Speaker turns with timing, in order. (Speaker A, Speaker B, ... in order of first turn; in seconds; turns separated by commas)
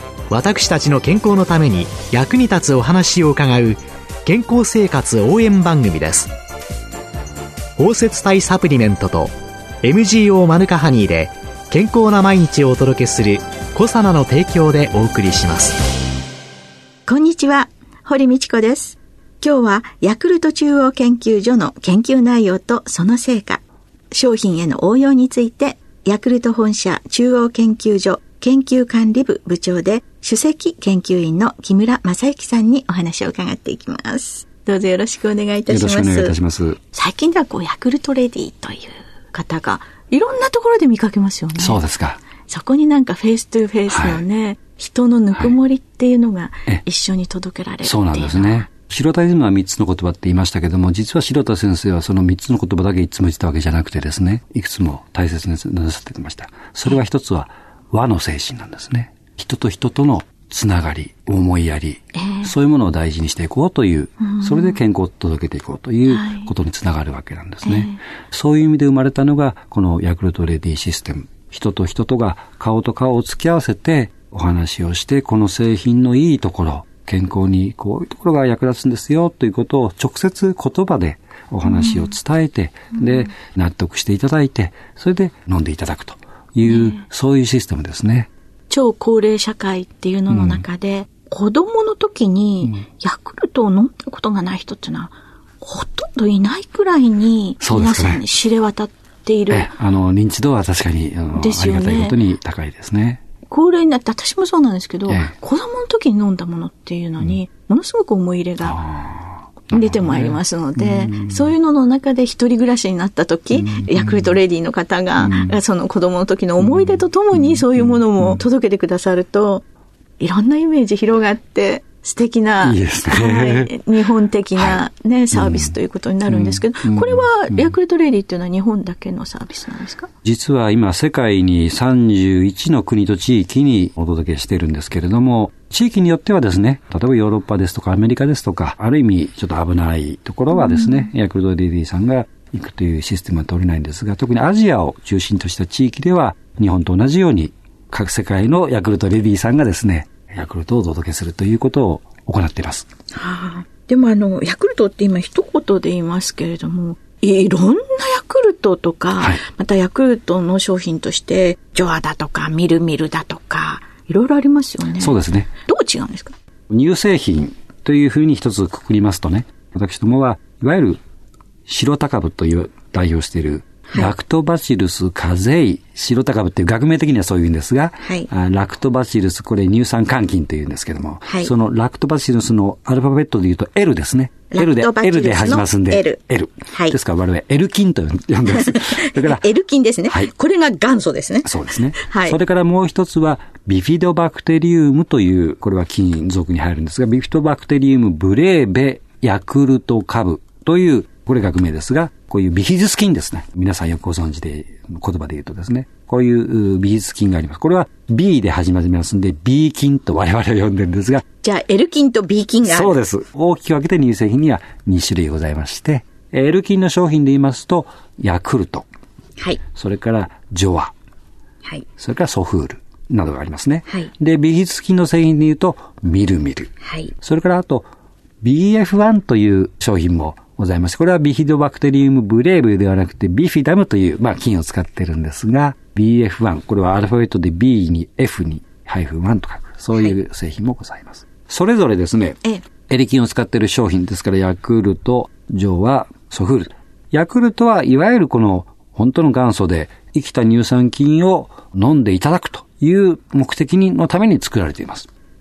Speaker A: 0.3-6.3, Speaker A: 7.8-15.8, Speaker B: 17.1-41.8, Speaker C: 35.7-36.8, Speaker C: 41.6-42.2, Speaker B: 42.4-48.7, Speaker C: 43.9-44.2, Speaker C: 47.8-88.3, Speaker B: 62.2-62.5, Speaker B: 64.2-64.8, Speaker B: 66.1-66.5, Speaker B: 67.6-68.0, Speaker B: 81.6-82.1, Speaker B: 86.6-87.0, Speaker B: 88.7-99.7, Speaker C: 90.3-90.6, Speaker C: 97.6-98.2, Speaker C: 99.5-103.2, Speaker B: 101.3-102.2, Speaker B: 103.5-108.8, Speaker C: 105.1-105.3, Speaker C: 108.6-111.5, Speaker B: 109.7-119.7, Speaker C: 113.5-114.4, Speaker C: 115.2-115.6, Speaker C: 116.6-118.4, Speaker B: 120.2-130.1, Speaker C: 122.6-123.7, Speaker C: 124.6-124.8, Speaker C: 125.3-125.8, Speaker C: 126.2-127.7, Speaker C: 130.2-152.8, Speaker B: 140.6-140.9, Speaker B: 153.1-166.3, Speaker C: 165.0-165.5, Speaker C: 166.7-171.0, Speaker C: 171.7-189.5, Speaker B: 178.0-178.3, Speaker B: 181.2-181.5, Speaker B: 184.5-186.9, Speaker B: 188.5-192.4, Speaker C: 191.4-211.2, Speaker B: 211.4-212.9, Speaker C: 212.7-218.8, Speaker C: 219.7-220.9, Speaker C: 222.0-227.9, Speaker B: 226.8-227.1, Speaker C: 228.4-255.1